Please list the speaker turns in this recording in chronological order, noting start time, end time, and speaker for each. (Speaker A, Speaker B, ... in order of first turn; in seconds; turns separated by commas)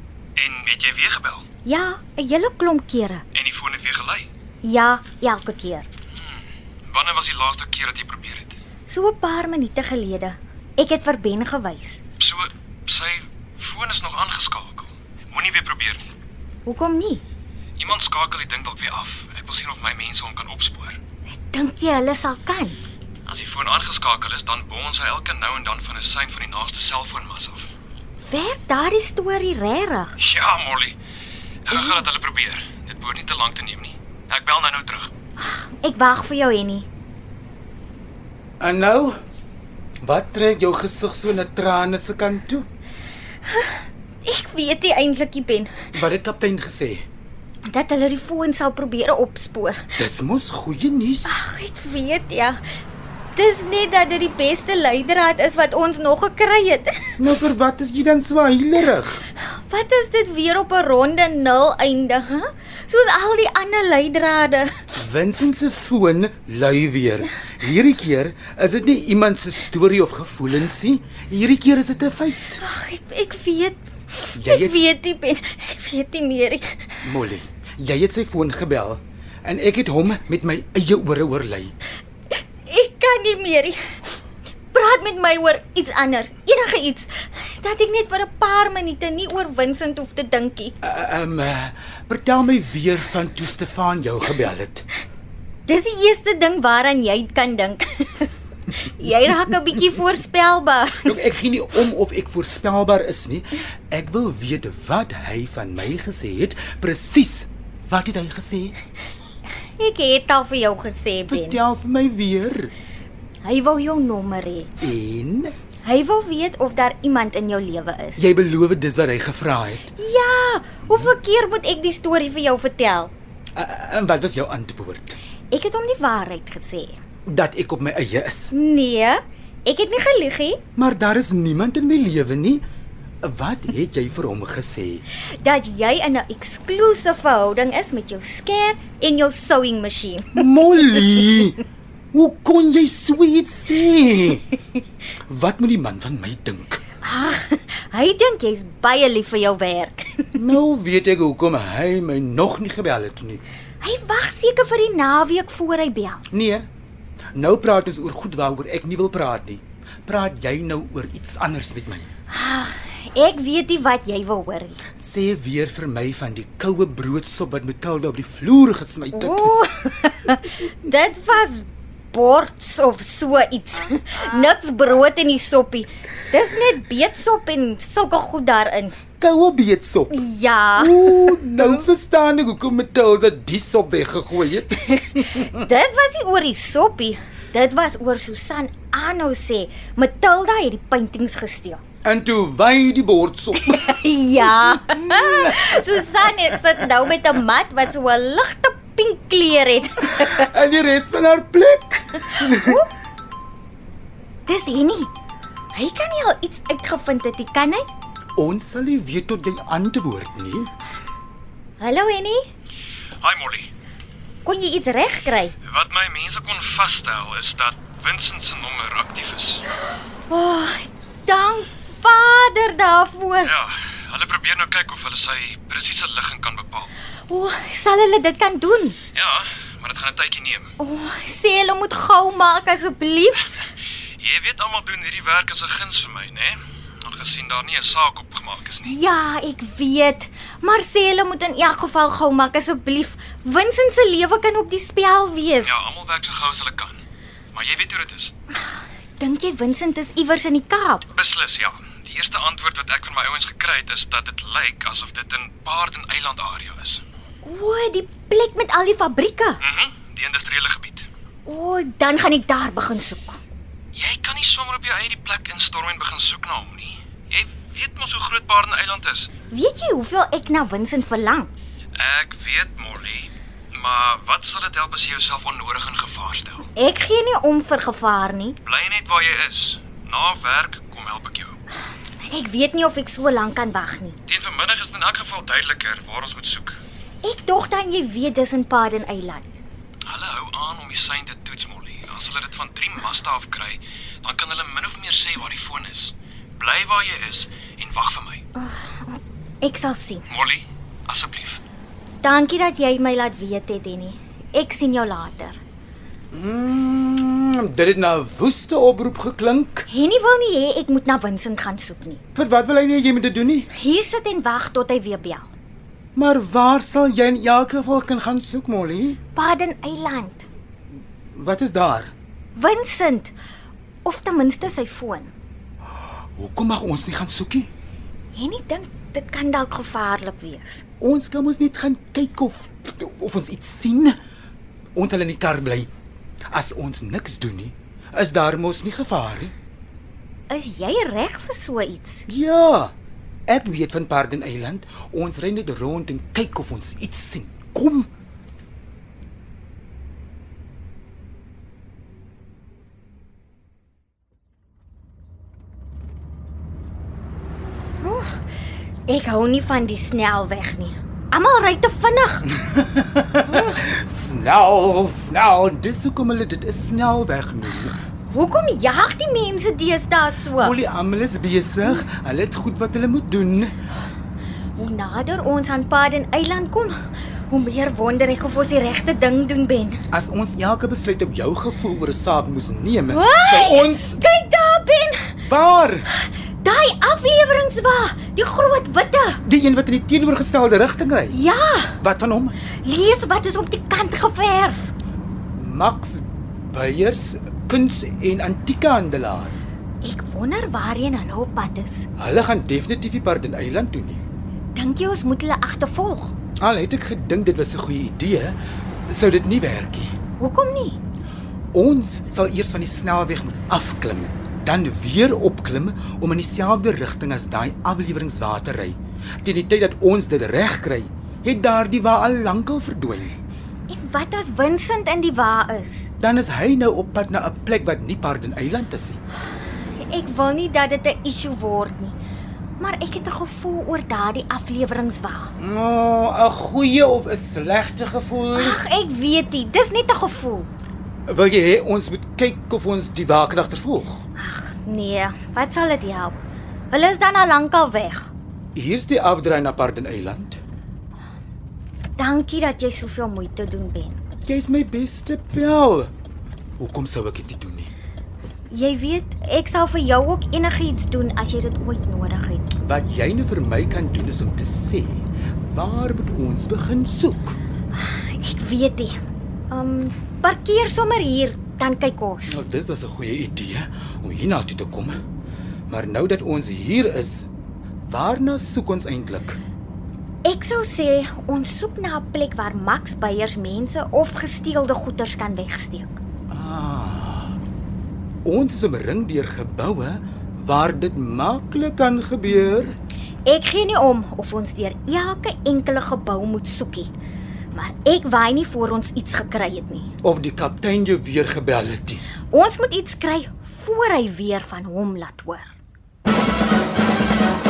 Speaker A: 0.3-1.4, Speaker B: 1.6-3.2, Speaker A: 3.3-4.3, Speaker B: 4.6-5.9, Speaker A: 6.1-8.6, Speaker B: 8.9-12.0, Speaker A: 12.2-16.1, Speaker B: 16.6-17.2, Speaker A: 17.8-21.0, Speaker B: 21.3-22.8, Speaker A: 23.2-27.7, Speaker B: 28.2-30.1, Speaker A: 30.2-30.9, Speaker A: 31.6-35.1, Speaker B: 35.4-36.9, Speaker C: 38.6-39.2, Speaker C: 40.0-42.6, Speaker B: 43.5-45.7, Speaker C: 45.9-47.0, Speaker B: 47.6-49.9, Speaker C: 50.0-51.4, Speaker B: 51.2-52.6, Speaker B: 53.3-57.2, Speaker C: 57.2-59.2, Speaker B: 59.4-64.7, Speaker C: 64.9-72.6, Speaker B: 72.6-77.0, Speaker C: 74.3-74.9, Speaker C: 77.0-81.7, Speaker B: 82.3-84.2, Speaker B: 84.7-90.7, Speaker C: 90.8-94.8, Speaker B: 95.7-101.2, Speaker C: 101.0-108.7, Speaker B: 109.8-111.6, Speaker C: 111.3-112.7, Speaker B: 113.4-114.7, Speaker C: 114.8-115.5, Speaker B: 115.8-118.2, Speaker C: 118.2-119.9, Speaker B: 120.0-123.1, Speaker C: 120.8-121.1, Speaker C: 123.5-125.2, Speaker B: 125.5-127.0, Speaker C: 127.2-128.5, Speaker B: 128.5-130.6, Speaker C: 130.7-132.6, Speaker C: 133.2-135.0, Speaker B: 135.4-140.5, Speaker C: 140.3-141.6, Speaker C: 142.1-144.4, Speaker C: 145.3-146.8, Speaker B: 147.0-150.4, Speaker C: 150.3-153.4, Speaker B: 153.8-156.2, Speaker C: 156.3-156.7, Speaker C: 157.3-162.1, Speaker B: 162.3-164.8, Speaker C: 165.0-169.6, Speaker B: 169.1-179.0, Speaker C: 179.2-180.2, Speaker B: 180.1-181.8, Speaker C: 180.8-185.7, Speaker B: 184.9-191.8, Speaker C: 192.0-196.6, Speaker B: 193.6-200.5, Speaker C: 200.1-202.8, Speaker B: 202.4-202.9, Speaker B: 204.4-205.1, Speaker B: 205.7-207.8, Speaker C: 208.3-210.7, Speaker B: 211.8-212.5, Speaker A: 213.2-213.7, Speaker B: 214.4-215.5, Speaker A: 215.7-219.6, Speaker B: 220.2-223.5, Speaker A: 223.4-226.9, Speaker B: 227.3-229.0, Speaker A: 229.1-230.7, Speaker B: 230.8-233.5, Speaker A: 234.2-239.0, Speaker B: 238.8-245.8, Speaker A: 245.6-247.0, Speaker A: 247.5-248.3, Speaker B: 249.2-251.0, Speaker A: 251.1-257.0, Speaker B: 257.4-259.6, Speaker A: 259.6-261.1, Speaker B: 261.4-263.4, Speaker A: 263.9-269.3, Speaker B: 269.5-271.5, Speaker A: 271.9-276.7, Speaker B: 276.8-278.6, Speaker A: 278.6-281.6, Speaker B: 282.2-284.2, Speaker A: 284.2-286.8, Speaker B: 287.2-289.6, Speaker A: 290.1-298.4, Speaker B: 298.6-300.3, Speaker A: 300.3-301.6, Speaker B: 302.2-305.6, Speaker C: 306.3-309.9, Speaker B: 309.9-312.2, Speaker C: 312.3-313.7, Speaker B: 313.7-315.5, Speaker C: 316.1-319.2, Speaker B: 319.3-320.4, Speaker C: 321.3-322.1, Speaker B: 322.6-323.3, Speaker B: 324.0-325.3, Speaker C: 326.3-327.7, Speaker B: 328.3-330.8, Speaker C: 331.0-334.1, Speaker C: 334.9-335.9, Speaker C: 336.5-339.5, Speaker B: 340.5-342.2, Speaker C: 342.3-342.9, Speaker C: 343.5-348.1, Speaker B: 358.0-358.4, Speaker B: 359.1-362.5, Speaker C: 362.6-368.0, Speaker B: 363.4-363.8, Speaker B: 368.3-370.8, Speaker C: 370.6-373.7, Speaker B: 374.8-380.0, Speaker C: 380.1-384.2, Speaker B: 383.1-385.4, Speaker C: 385.5-386.1, Speaker B: 386.1-389.4, Speaker C: 389.4-391.4, Speaker B: 391.3-392.0, Speaker C: 392.0-392.6, Speaker B: 392.8-394.9, Speaker C: 395.6-399.6, Speaker B: 400.0-402.1, Speaker C: 402.2-404.2, Speaker B: 404.7-406.3, Speaker C: 406.6-410.1, Speaker B: 410.4-411.0, Speaker C: 411.7-423.3, Speaker B: 423.9-426.1, Speaker C: 426.2-429.2, Speaker B: 429.9-432.1, Speaker B: 432.8-435.5, Speaker C: 435.6-438.8, Speaker B: 438.5-440.7, Speaker C: 441.3-444.2, Speaker B: 444.4-446.4, Speaker B: 446.9-448.3, Speaker C: 448.7-450.6, Speaker B: 452.2-454.2, Speaker C: 454.4-456.1, Speaker C: 456.8-457.9, Speaker B: 458.7-462.7, Speaker C: 462.8-467.6, Speaker B: 467.9-469.2, Speaker B: 469.7-472.6, Speaker C: 472.5-475.2, Speaker C: 475.9-477.5, Speaker C: 478.1-479.6, Speaker B: 480.4-486.2, Speaker C: 486.5-487.6, Speaker C: 488.4-492.9, Speaker B: 493.4-497.1, Speaker B: 497.7-500.1, Speaker C: 500.2-502.2, Speaker B: 502.5-505.7